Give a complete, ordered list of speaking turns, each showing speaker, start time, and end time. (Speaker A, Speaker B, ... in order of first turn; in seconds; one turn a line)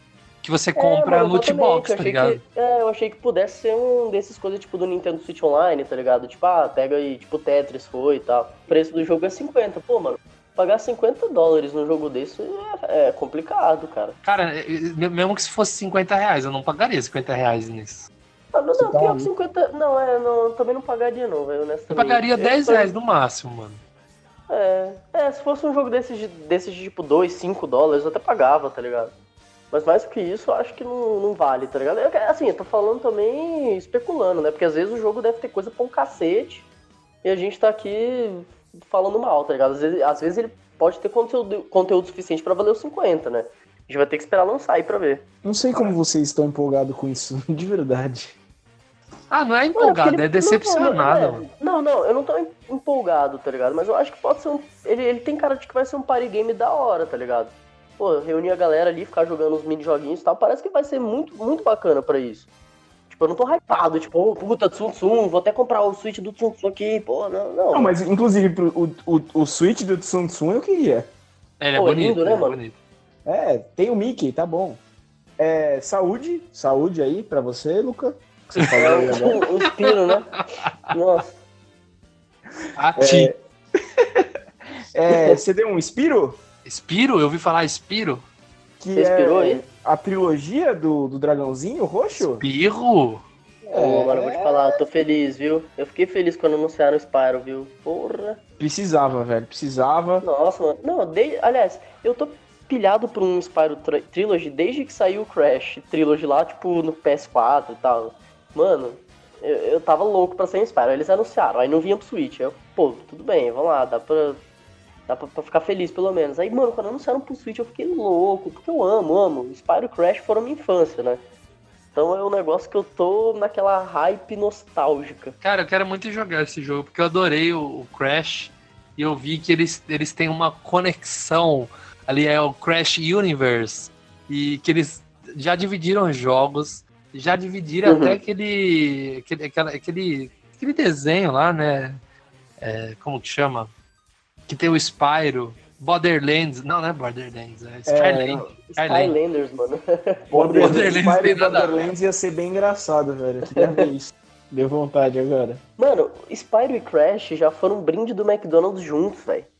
Speaker A: 0.4-2.4
Speaker B: 0.8-14.2
Speaker A: 14.2-18.1
Speaker B: 18.5-22.9
Speaker C: 18.8-19.3
Speaker A: 21.9-23.8
Speaker B: 24.5-29.1
Speaker B: 29.7-36.7
Speaker B: 37.2-45.2
Speaker C: 45.4-48.4
Speaker A: 49.3-51.4
Speaker B: 49.7-62.5
Speaker B: 63.1-67.9
Speaker C: 67.7-71.1
Speaker A: 71.6-72.8
Speaker B: 71.8-72.6
Speaker C: 73.2-74.8
Speaker C: 75.4-79.4
Speaker A: 78.6-79.3
Speaker B: 78.8-80.3
Speaker A: 79.8-80.1
Speaker B: 80.9-81.3
Speaker A: 82.8-83.3
Speaker C: 83.0-83.4
Speaker C: 84.0-84.3
Speaker C: 84.9-86.4
Speaker B: 85.1-85.4
Speaker A: 86.6-88.2
Speaker C: 88.8-92.4
Speaker B: 88.9-89.6
Speaker A: 92.2-93.2
Speaker C: 93.7-94.8
Speaker B: 93.7-98.4
Speaker C: 98.6-100.2
Speaker B: 100.2-114.4
Speaker B: 115.1-121.2
Speaker B: 121.9-125.3
Speaker A: 125.4-142.0
Speaker B: 137.8-138.2
Speaker A: 142.6-143.7
Speaker A: 144.5-149.1
Speaker C: 147.9-148.5
Speaker B: 148.7-150.9
Speaker C: 150.3-155.6
Speaker A: 150.5-151.7
Speaker B: 153.5-153.9
Speaker B: 155.8-159.5